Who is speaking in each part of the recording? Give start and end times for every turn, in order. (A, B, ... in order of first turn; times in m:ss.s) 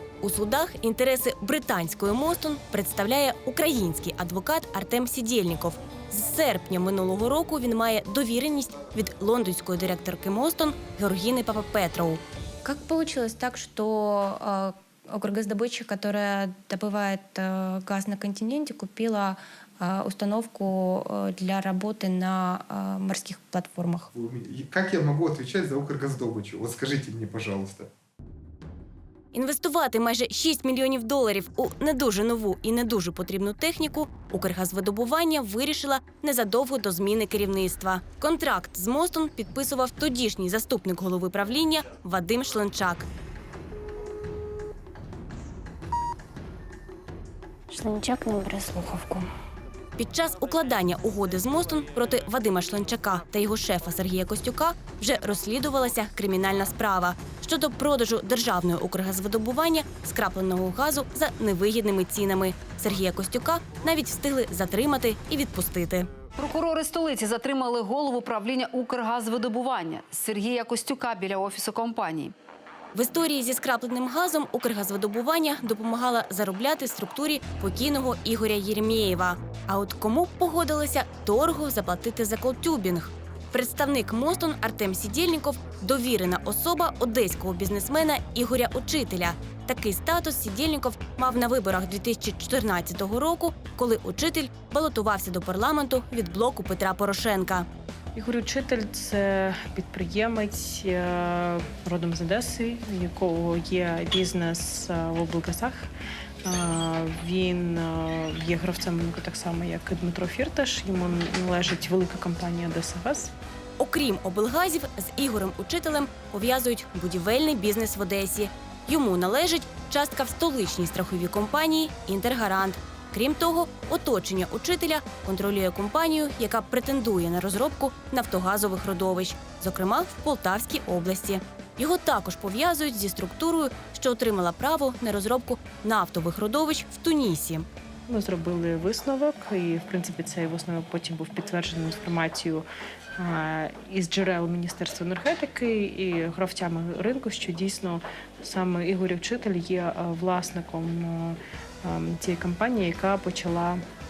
0:00.2-0:12.2 A
0:12.6-0:24.1 B
0:24.1-0:27.9 C
0:29.3-0:43.1 A
0:47.7-0:49.3 B
0:50.0-1:06.1 A
1:06.4-1:12.3 D
1:12.9-1:37.7 A
1:38.2-1:45.9 E
1:46.4-1:53.3 E
1:53.8-2:17.7 A
2:18.1-2:22.6 E
2:23.2-2:33.8 E